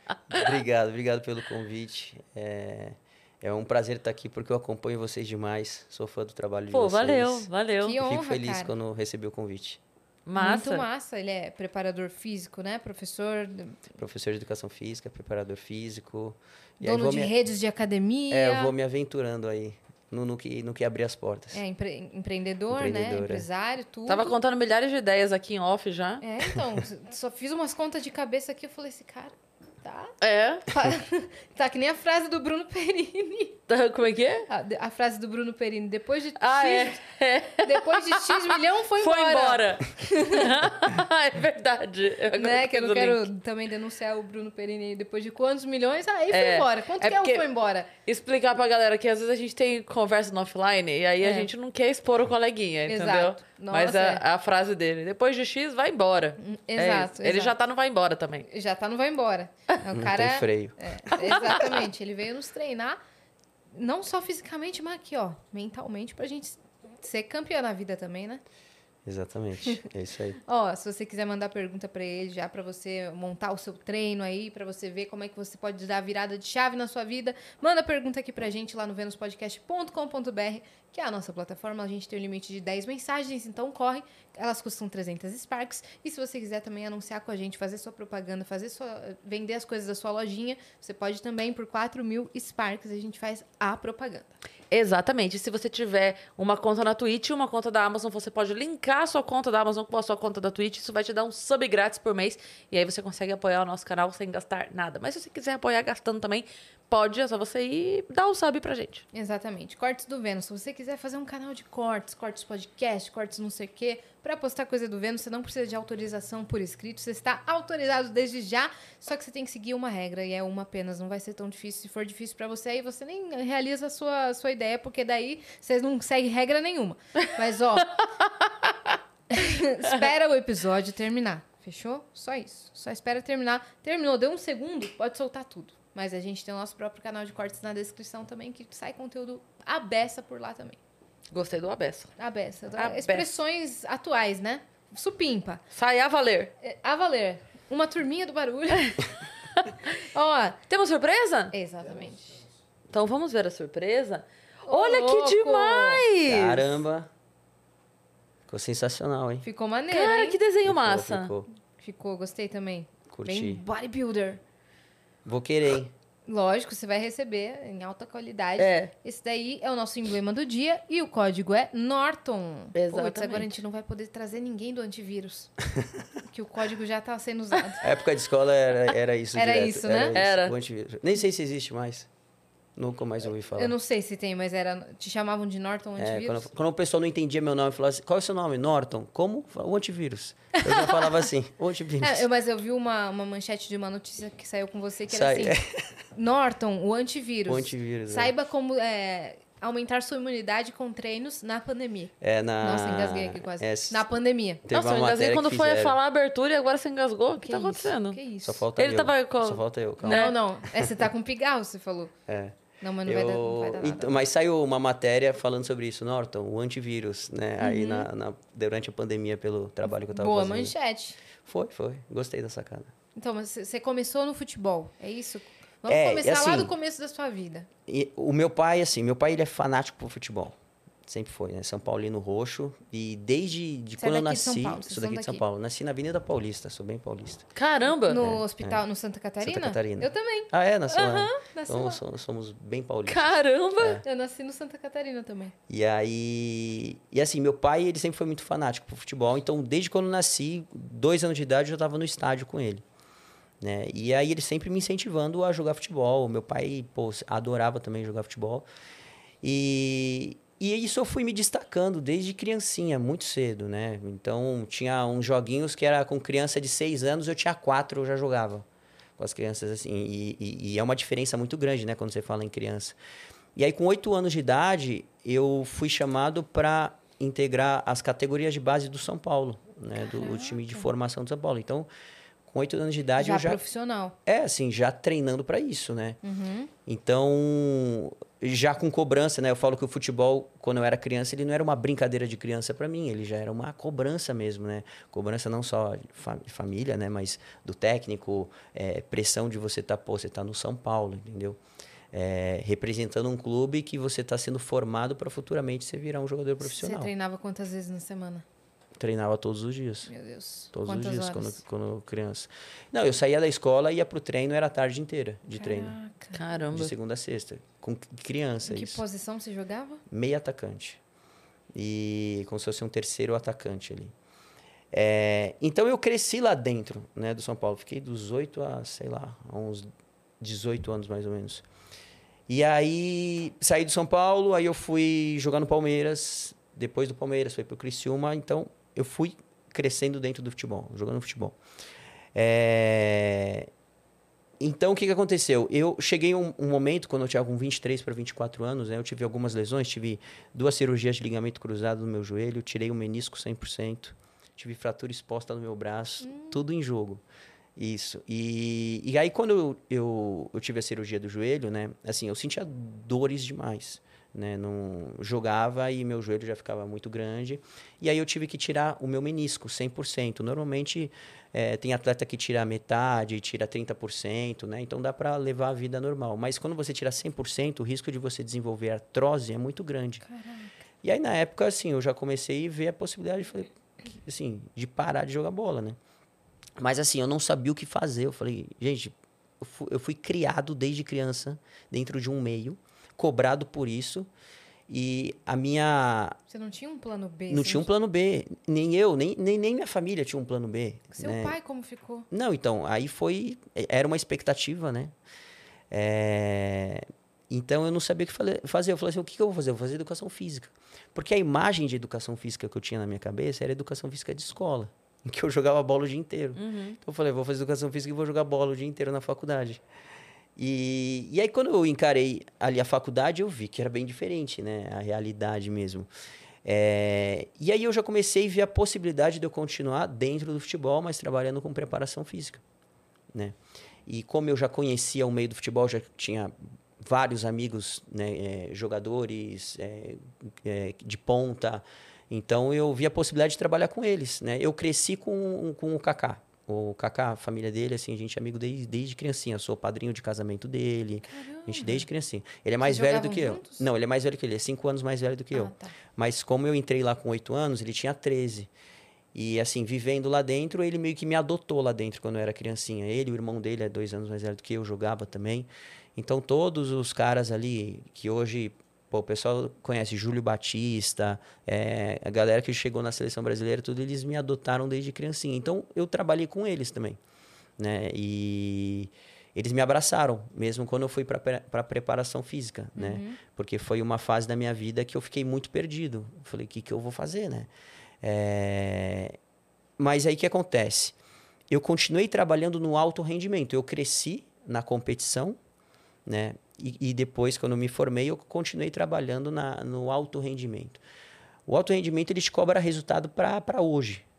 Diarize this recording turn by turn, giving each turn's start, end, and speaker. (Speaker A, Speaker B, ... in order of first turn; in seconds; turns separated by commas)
Speaker A: 0.3-9.8, Speaker B: 6.7-8.0, Speaker C: 7.8-8.7, Speaker B: 10.3-10.8, Speaker C: 10.4-13.8, Speaker A: 14.0-17.3, Speaker C: 16.8-18.7, Speaker A: 18.3-21.6, Speaker C: 21.5-24.3, Speaker A: 22.7-23.5, Speaker B: 24.1-26.2, Speaker C: 26.2-30.1, Speaker B: 30.2-30.7, Speaker C: 30.7-33.6, Speaker B: 33.7-34.5, Speaker C: 34.5-37.0, Speaker B: 36.4-43.3, Speaker C: 37.6-40.7, Speaker C: 42.3-47.9, Speaker B: 46.3-58.5, Speaker C: 51.2-51.5, Speaker C: 52.9-54.2, Speaker C: 56.4-57.5, Speaker C: 58.5-63.0, Speaker A: 59.9-61.6, Speaker B: 61.3-61.8, Speaker C: 63.7-68.4, Speaker A: 69.0-70.4, Speaker C: 70.5-94.3, Speaker B: 94.7-109.0, Speaker C: 109.1-128.0, Speaker B: 127.2-129.0, Speaker C: 129.3-140.8, Speaker B: 141.3-142.1, Speaker C: 142.2-145.6, Speaker B: 142.8-143.3, Speaker B: 145.7-146.5, Speaker C: 146.6-149.3, Speaker B: 149.5-150.0, Speaker C: 150.0-150.6, Speaker B: 150.7-151.5, Speaker C: 151.5-152.4, Speaker B: 152.9-156.7, Speaker C: 154.7-156.1, Speaker A: 156.3-157.1, Speaker A: 158.5-159.5, Speaker C: 159.4-160.4, Speaker B: 159.9-161.3, Speaker A: 160.7-161.5, Speaker C: 161.8-164.4, Speaker A: 163.1-163.6, Speaker A: 165.2-165.9, Speaker C: 166.3-175.7, Speaker B: 168.6-168.9, Speaker B: 172.8-173.6, Speaker C: 176.2-177.9, Speaker A: 177.8-182.1, Speaker C: 179.3-180.2, Speaker B: 180.1-180.6, Speaker A: 182.8-183.8, Speaker C: 183.6-186.5, Speaker A: 186.0-192.3, Speaker C: 190.6-191.3, Speaker C: 192.0-195.6, Speaker A: 195.1-195.9, Speaker C: 196.2-204.6, Speaker A: 197.5-198.3, Speaker A: 202.2-204.0, Speaker A: 204.7-206.0, Speaker B: 204.7-208.2, Speaker C: 207.4-208.7, Speaker A: 208.4-210.3, Speaker B: 208.8-210.3, Speaker C: 210.1-212.1, Speaker A: 210.8-211.1, Speaker A: 212.3-220.7, Speaker C: 212.8-214.1, Speaker C: 217.6-218.1, Speaker C: 219.9-221.2, Speaker A: 221.4-222.9, Speaker C: 223.2-227.7, Speaker A: 225.8-226.7, Speaker A: 227.9-237.5, Speaker C: 234.0-235.4, Speaker B: 237.6-238.4, Speaker C: 238.1-242.0, Speaker A: 238.2-238.8, Speaker A: 239.4-244.0, Speaker B: 241.0-241.4, Speaker B: 243.1-244.0, Speaker C: 244.0-245.6, Speaker A: 245.7-252.8, Speaker A: 253.6-258.7, Speaker A: 259.4-268.7, Speaker A: 269.2-273.0, Speaker A: 273.6-281.9, Speaker C: 280.1-280.9, Speaker A: 282.5-283.6, Speaker C: 283.2-284.2, Speaker A: 284.3-286.2, Speaker C: 286.2-286.7, Speaker A: 286.9-301.6, Speaker A: 302.1-307.1, Speaker C: 306.6-308.4, Speaker A: 309.0-310.1, Speaker C: 310.1-311.6, Speaker A: 310.7-316.0, Speaker C: 315.6-316.4, Speaker B: 316.3-316.9, Speaker A: 316.7-319.0, Speaker C: 318.7-320.0, Speaker A: 320.1-321.0, Speaker A: 321.7-324.1, Speaker A: 324.9-329.9, Speaker A: 330.4-331.6, Speaker A: 332.5-341.6, Speaker A: 342.4-343.7, Speaker A: 344.6-357.2, Speaker C: 356.2-356.6, Speaker A: 357.8-380.2, Speaker C: 380.2-380.8, Speaker A: 381.0-386.0, Speaker A: 386.8-394.3, Speaker A: 394.9-396.4, Speaker C: 396.5-397.9, Speaker A: 397.5-401.6, Speaker C: 401.2-402.3, Speaker A: 402.3-405.1, Speaker A: 405.9-419.8, Speaker B: 416.6-417.0, Speaker A: 420.6-426.1, Speaker A: 426.6-432.6, Speaker A: 433.3-458.7, Speaker C: 451.3-452.1, Speaker C: 452.8-453.9, Speaker C: 455.5-455.9, Speaker A: 459.3-477.2, Speaker A: 477.8-487.7, Speaker C: 483.0-483.4, Speaker A: 488.2-489.4, Speaker A: 490.0-491.2, Speaker A: 491.7-495.6, Speaker A: 496.3-501.0, Speaker A: 501.7-504.2